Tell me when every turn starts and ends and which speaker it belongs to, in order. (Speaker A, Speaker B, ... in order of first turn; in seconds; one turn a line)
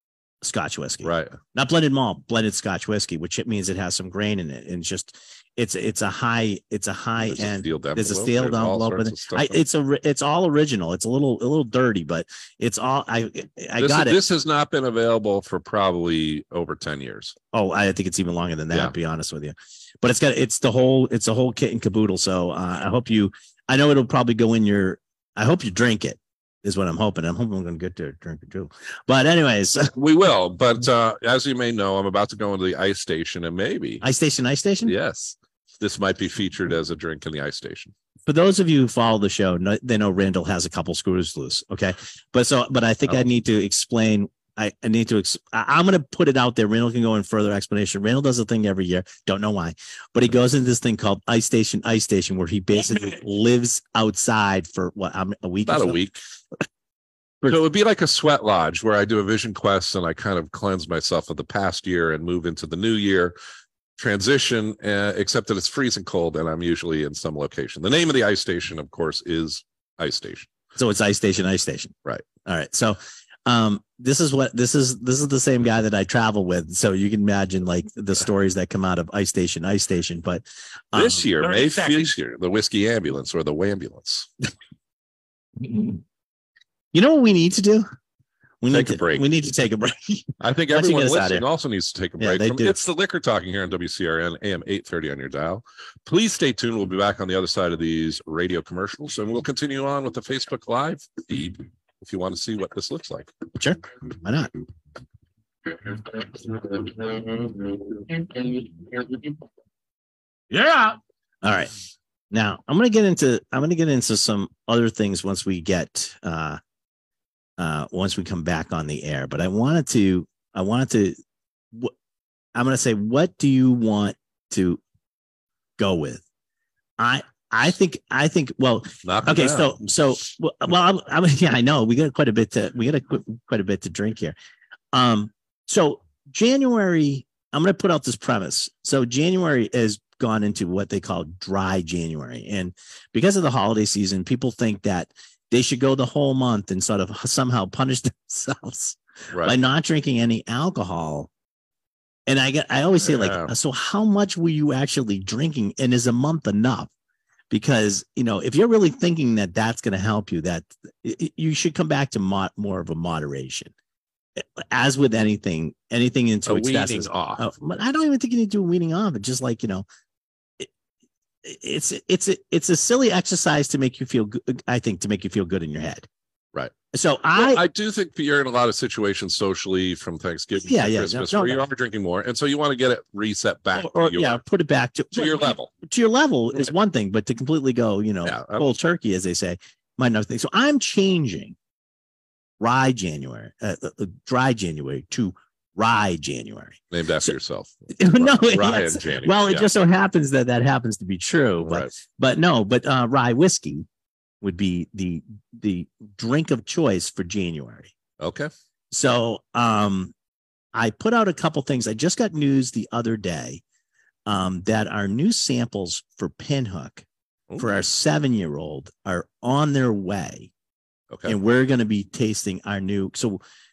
Speaker A: 0.4-14.2
Speaker B: 1.0-1.4
Speaker B: 7.2-9.6
Speaker B: 13.8-17.4
Speaker A: 17.5-29.9
Speaker B: 29.9-34.0
Speaker A: 34.0-34.9
Speaker B: 34.8-37.9
Speaker A: 38.3-56.0
Speaker B: 55.6-56.2
Speaker B: 57.4-63.3
Speaker B: 64.0-70.5
Speaker A: 70.7-81.3
Speaker B: 80.9-84.3
Speaker C: 81.4-82.0
Speaker A: 86.9-87.8
Speaker A: 88.6-91.4
Speaker B: 88.7-89.3
Speaker B: 90.4-103.3
Speaker A: 92.2-92.8
Speaker A: 103.5-104.5
Speaker C: 105.7-109.4
Speaker C: 110.5-111.0
Speaker A: 111.4-111.7
Speaker A: 112.3-116.6
Speaker A: 117.6-121.2
Speaker A: 122.5-124.8
Speaker A: 125.8-126.2
Speaker A: 127.0-134.3
Speaker B: 129.0-129.8
Speaker A: 134.9-151.3
Speaker A: 152.3-156.9
Speaker B: 153.0-153.5
Speaker A: 157.5-163.7
Speaker A: 164.4-169.8
Speaker B: 166.4-167.4
Speaker A: 171.4-176.1
Speaker A: 176.9-177.6
Speaker B: 177.3-184.4
Speaker A: 180.6-181.6
Speaker A: 183.7-191.5
Speaker B: 185.1-185.7
Speaker B: 188.2-188.7
Speaker A: 192.6-197.3
Speaker B: 196.9-199.7
Speaker A: 197.9-203.8
Speaker B: 201.6-201.9
Speaker A: 204.4-207.9
Speaker B: 208.2-208.5
Speaker A: 208.9-210.1
Speaker A: 210.7-213.6
Speaker A: 214.2-217.0
Speaker A: 217.6-220.5
Speaker B: 221.1-221.3
Speaker A: 221.2-223.4